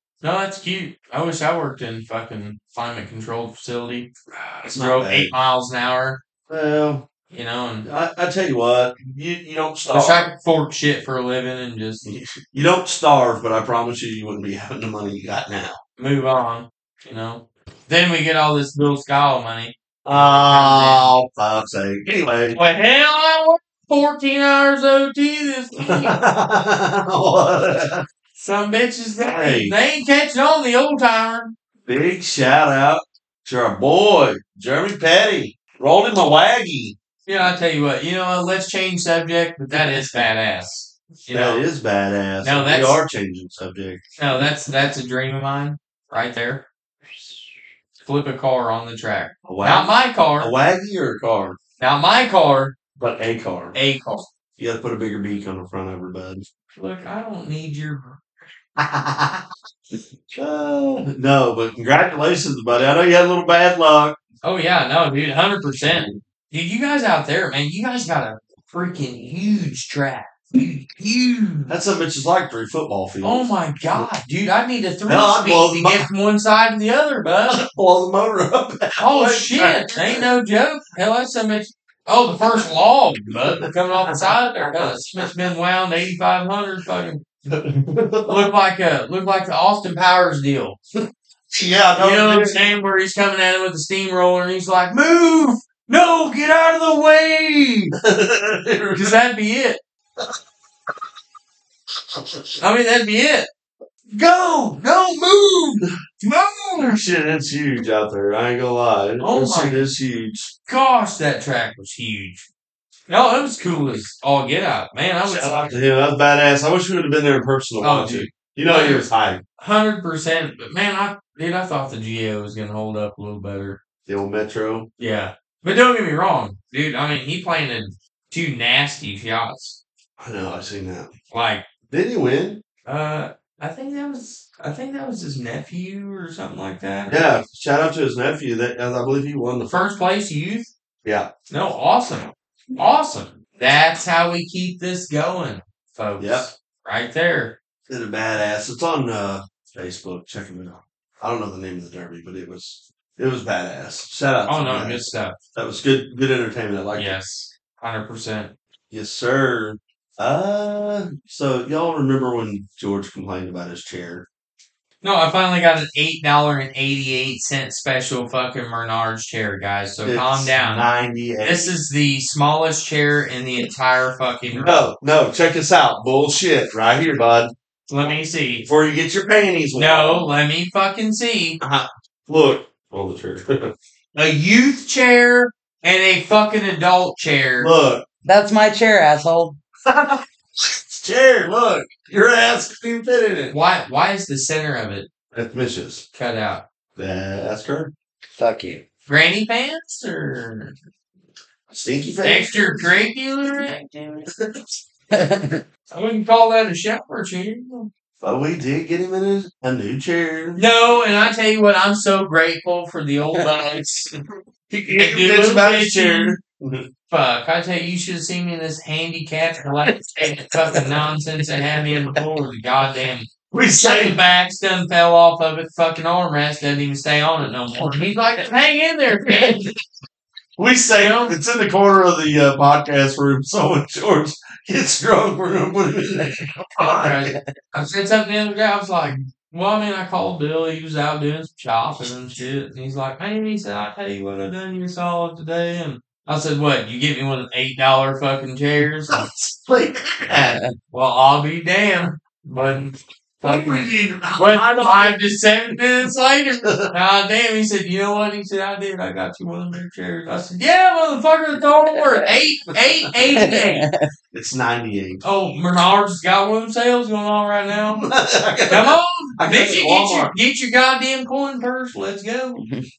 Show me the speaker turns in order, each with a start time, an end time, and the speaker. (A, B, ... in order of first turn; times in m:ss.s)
0:00.2-0:06.2 A
0:04.6-0:05.3 B
0:06.5-0:07.1 B
0:07.3-0:07.9 A
0:07.8-0:10.3 B
0:09.9-0:12.1 A
0:12.0-0:15.8 B
0:16.0-0:21.1 A
0:20.1-0:22.6 B
0:22.5-0:26.2 A
0:25.8-0:28.0 B
0:28.4-0:31.5 A
0:29.2-0:29.7 B
0:31.9-0:37.0 B
0:37.3-0:41.6 A
0:41.3-0:44.0 B
0:42.4-0:43.0 A
0:44.2-0:46.7 A
0:48.0-0:50.5 A
0:49.5-0:51.6 B
0:51.8-0:52.8 A
0:53.0-0:53.8 B
0:53.7-0:54.3 A
0:54.6-0:56.5 B
0:56.8-0:58.2 A
0:58.8-0:59.4 B
1:00.3-1:04.2 B
1:04.4-1:11.8 A
1:05.8-1:06.2 B
1:11.7-1:14.1 B
1:13.2-1:17.6 A
1:15.1-1:16.1 B
1:17.5-1:20.3 B
1:19.0-1:27.4 A
1:23.5-1:24.9 B
1:27.5-1:28.4 B
1:28.3-1:30.8 A
1:31.5-1:32.6 B
1:32.0-1:37.9 A
1:38.0-1:39.2 B
1:39.0-1:39.8 A
1:42.6-1:43.5 A
1:44.1-1:50.5 B
1:49.2-1:49.9 A
1:50.7-1:52.5 A
1:53.1-1:55.8 A
1:55.3-1:59.4 B
1:57.8-2:03.8 A
2:04.1-2:04.9 B
2:05.0-2:09.8 A
2:10.2-2:11.1 B
2:11.3-2:11.6 A
2:11.9-2:12.6 B
2:12.9-2:17.4 A
2:17.1-2:19.7 B
2:19.7-2:20.7 A
2:21.5-2:27.6 A
2:26.2-2:26.5 B
2:27.9-2:37.2 B
2:34.5-2:35.4 A
2:37.0-2:38.5 A
2:38.9-2:44.3 B
2:45.0-2:50.9 A
2:50.0-2:51.7 B
2:51.4-2:54.9 A
2:54.5-2:57.5 B
2:57.9-2:58.7 A
2:58.6-3:00.3 B
2:59.8-3:01.6 A
3:01.6-3:03.7 B
3:04.2-3:07.7 A
3:07.6-3:08.0 B
3:08.2-3:09.6 C
3:09.9-3:13.6 B
3:13.5-3:15.1 A
3:15.3-3:16.0 B
3:16.1-3:16.6 A
3:17.0-3:17.9 B
3:18.4-3:18.8 C
3:19.1-3:20.8 A
3:21.7-3:23.1 B
3:22.2-3:24.3 A
3:24.4-3:24.7 B
3:25.1-3:25.6 C
3:25.9-3:27.9 A
3:28.2-3:30.6 B
3:30.6-3:34.1 A
3:34.7-3:36.9 B
3:35.0-3:36.4 A
3:37.1-3:49.7 A
3:43.5-3:44.2 B
3:50.6-3:57.4 B
3:51.0-3:51.4 A
3:56.8-4:09.2 A
4:09.1-4:10.6 B
4:10.4-4:23.8 A
4:13.4-4:15.2 B
4:16.6-4:16.9 B
4:23.4-4:24.0 C
4:24.3-4:25.2 B
4:25.2-4:28.0 A
4:28.0-4:30.3 B
4:28.7-4:32.6 A